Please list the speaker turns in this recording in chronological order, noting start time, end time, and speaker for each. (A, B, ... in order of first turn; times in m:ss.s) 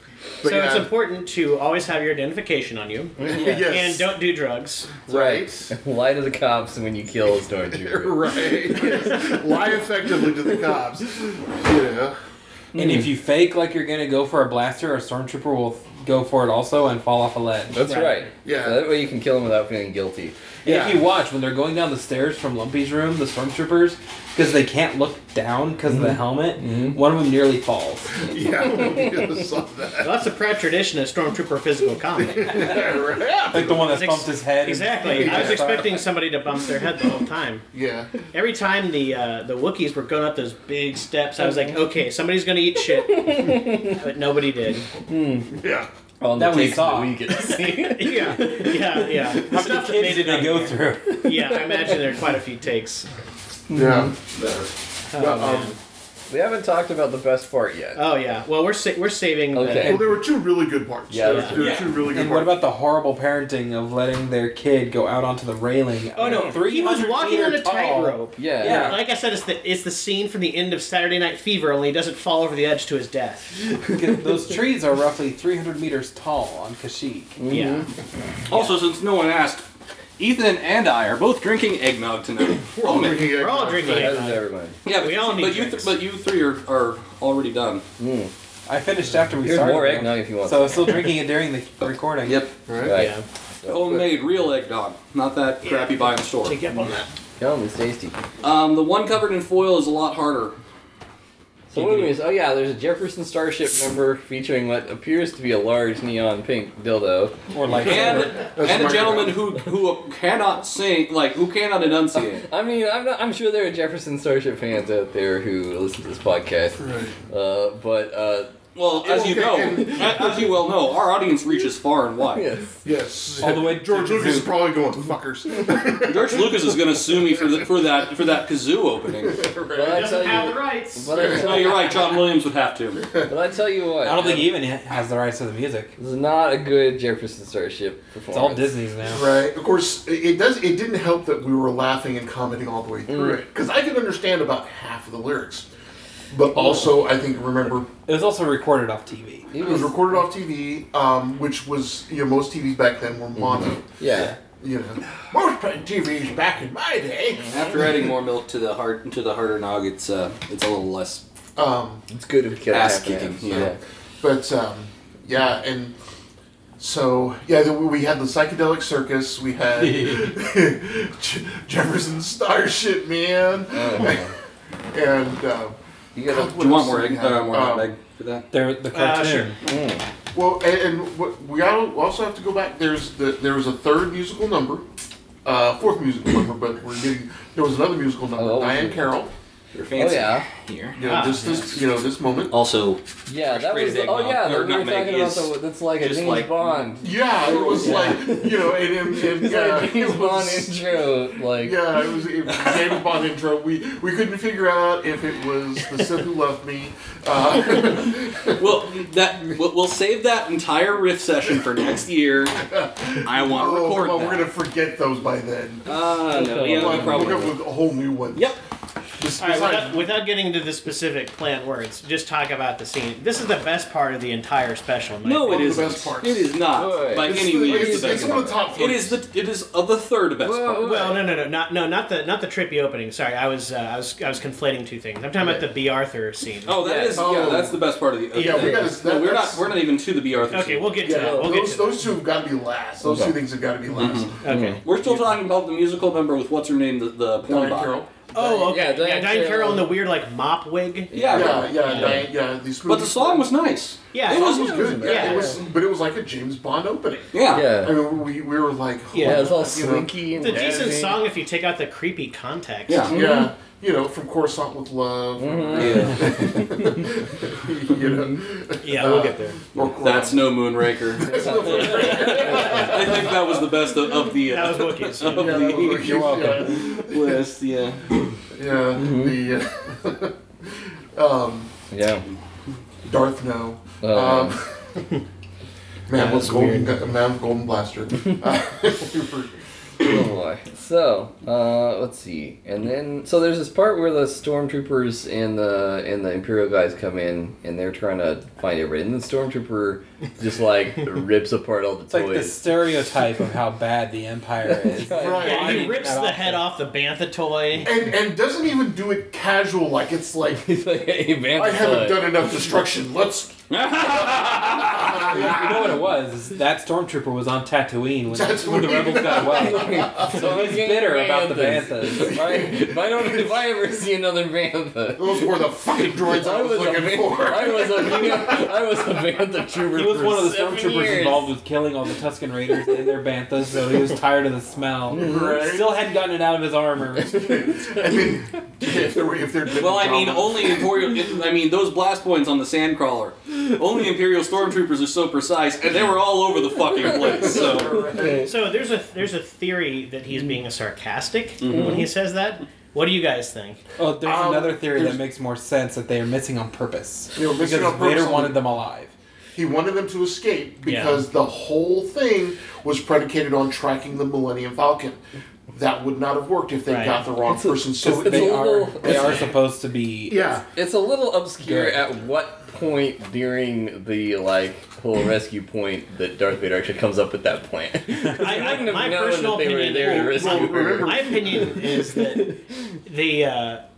0:00.4-0:00.9 A
0:00.4-0:04.9 B
0:03.2-0:03.7 C
0:03.2-0:04.1 A
0:05.1-0:05.7 A
0:05.1-0:09.4 C
0:07.7-0:12.2 A
0:12.7-0:13.1 C
0:12.8-0:18.2 D
0:17.7-0:20.4 C
0:18.4-0:18.9 A
0:20.6-0:28.3 D
0:20.6-0:21.0 A
0:25.9-0:27.0 C
0:28.2-0:30.2 A
0:30.0-0:32.8 B
0:32.2-0:33.9 A
0:33.5-0:36.0 D
0:33.8-0:37.6 B
0:35.1-0:35.8 A
0:37.7-0:38.1 A
0:38.3-0:44.9 B
0:41.4-0:41.8 C
0:43.0-0:44.0 C
0:45.1-0:45.5 C
0:45.5-0:45.9 A
0:46.2-0:49.3 C
0:46.3-0:47.4 D
0:47.8-0:53.1 B
0:49.4-0:51.3 D
0:51.2-0:52.0 C
0:53.7-0:54.1 C
0:53.7-0:54.1 A
0:54.3-0:54.7 E
0:55.1-0:55.8 B
0:55.1-0:55.8 A
0:56.3-0:58.0 C
0:58.0-1:00.1 B
0:59.5-1:00.2 C
0:59.8-1:02.6 A
1:01.1-1:01.8 C
1:01.2-1:01.6 B
1:01.6-1:02.0 E
1:02.0-1:09.0 D
1:06.2-1:13.6 B
1:06.2-1:06.5 C
1:08.4-1:09.0 C
1:13.8-1:17.6 D
1:17.4-1:17.9 C
1:17.5-1:17.9 B
1:18.5-1:19.6 E
1:20.2-1:23.3 E
1:22.7-1:24.2 A
1:23.4-1:25.9 B
1:23.8-1:24.8 C
1:24.8-1:27.8 E
1:28.0-1:28.3 C
1:28.7-1:32.4 D
1:29.4-1:31.1 C
1:32.2-1:32.5 E
1:32.7-1:33.0 A
1:32.8-1:34.0 C
1:32.9-1:33.2 B
1:33.7-1:36.6 E
1:35.6-1:37.1 B
1:37.4-1:38.2 C
1:38.4-1:40.6 E
1:41.7-1:47.4 C
1:41.8-1:42.1 D
1:47.5-1:48.5 D
1:47.8-1:52.5 E
1:47.9-1:49.4 A
1:52.1-1:58.5 C
1:56.8-1:57.2 A
1:58.8-2:02.5 E
1:59.0-2:00.5 A
1:59.8-2:00.2 C
2:02.3-2:02.8 C
2:02.8-2:07.5 A
2:03.4-2:04.5 D
2:06.0-2:09.5 E
2:09.2-2:10.5 A
2:09.7-2:12.1 C
2:09.9-2:11.8 B
2:11.1-2:11.7 A
2:11.2-2:13.1 E
2:13.2-2:14.5 C
2:14.0-2:15.9 D
2:16.0-2:18.7 C
2:18.3-2:19.3 D
2:19.1-2:25.7 A
2:23.1-2:23.4 C
2:26.3-2:27.9 A
2:28.1-2:29.5 D
2:29.5-2:30.0 C
2:29.6-2:33.8 A
2:33.4-2:34.4 C
2:34.4-2:38.1 A
2:37.5-2:41.2 E
2:41.6-2:42.0 A
2:42.1-2:43.8 C
2:42.7-2:43.7 E
2:43.5-2:46.0 A
2:46.8-2:54.3 A
2:53.7-2:54.3 C
2:54.9-2:57.9 A
2:56.2-2:56.5 C
2:56.4-2:58.5 E
2:58.5-2:59.6 D
2:58.9-2:59.6 B
2:59.6-3:00.0 C
3:00.3-3:04.8 A
3:05.4-3:09.3 A
3:08.4-3:09.1 C
3:09.7-3:11.9 E
3:10.0-3:10.4 C
3:11.0-3:12.5 A
3:11.0-3:11.6 B
3:12.5-3:16.9 E
3:13.3-3:21.8 C
3:17.0-3:21.0 A
3:17.4-3:18.1 E
3:21.6-3:28.8 A
3:22.5-3:22.9 E
3:28.5-3:34.5 E
3:32.6-3:36.1 A
3:35.9-3:37.6 E
3:36.3-3:37.5 C
3:36.7-3:38.6 A
3:39.2-3:40.0 A
3:39.4-3:45.8 B
3:45.2-3:50.9 E
3:45.4-3:46.6 A
3:46.8-3:48.6 C
3:47.1-3:49.2 A
3:50.4-3:51.3 C
3:50.8-3:56.8 B
3:56.7-4:01.0 E
3:56.8-3:57.5 C
3:57.1-3:57.8 A
3:58.3-3:59.7 A
3:58.4-3:58.7 B
3:58.4-3:58.9 C
4:00.5-4:02.1 B
4:01.0-4:04.4 A
4:01.1-4:01.7 C
4:03.0-4:03.4 C
4:04.0-4:07.9 E
4:04.4-4:04.8 B
4:04.4-4:04.8 C
4:07.4-4:08.1 A
4:08.3-4:11.1 B
4:08.4-4:10.0 C
4:11.1-4:11.8 E
4:11.1-4:12.2 C
4:11.3-4:13.5 A
4:11.8-4:12.2 B
4:12.9-4:15.6 E
4:14.1-4:15.6 B
4:14.3-4:20.7 A
4:14.6-4:15.6 C
4:17.3-4:17.7 E
4:17.5-4:18.0 C
4:19.1-4:19.6 B
4:19.2-4:21.2 C
4:20.4-4:23.1 B
4:22.9-4:23.4 E
4:23.1-4:33.6 A
4:25.4-4:27.0 C
4:25.8-4:26.3 E
4:28.8-4:29.6 B
4:30.0-4:38.1 E
4:31.3-4:32.9 C
4:34.5-4:35.6 B
4:35.3-4:37.4 A
4:35.6-4:36.9 D
4:38.5-4:41.7 A
4:39.0-4:39.4 C
4:41.9-4:42.2 C
4:43.0-4:45.0 A
4:44.0-4:44.6 C
4:46.1-4:49.6 A
4:46.1-4:47.0 B
4:50.0-5:02.6 C
5:02.1-5:06.7 D
5:04.6-5:05.6 C
5:05.1-5:05.9 A
5:05.4-5:07.9 B
5:07.8-5:10.7 A
5:10.6-5:12.4 C
5:11.5-5:13.6 A
5:13.7-5:15.5 E
5:14.1-5:16.0 A
5:15.3-5:22.5 D
5:18.3-5:20.4 A
5:19.4-5:25.4 C
5:22.1-5:23.7 A
5:25.2-5:28.8 A
5:26.2-5:31.5 C
5:29.9-5:37.9 D
5:35.1-5:36.0 A
5:35.1-5:35.6 C
5:37.2-5:40.9 A
5:39.7-5:48.0 E
5:47.1-5:48.5 A
5:47.4-5:48.5 C
5:48.4-5:53.8 B
5:51.6-5:52.1 E
5:51.7-5:52.1 C
5:54.0-5:59.1 D
5:54.2-5:55.2 A
5:57.4-5:58.6 A
5:59.6-6:05.2 A
6:00.9-6:01.2 B
6:05.7-6:09.5 A
6:06.9-6:07.2 B
6:07.5-6:09.5 C
6:08.0-6:10.6 D
6:10.3-6:10.6 A
6:10.8-6:22.6 C
6:11.6-6:12.0 D
6:18.4-6:23.8 B
6:20.0-6:21.8 A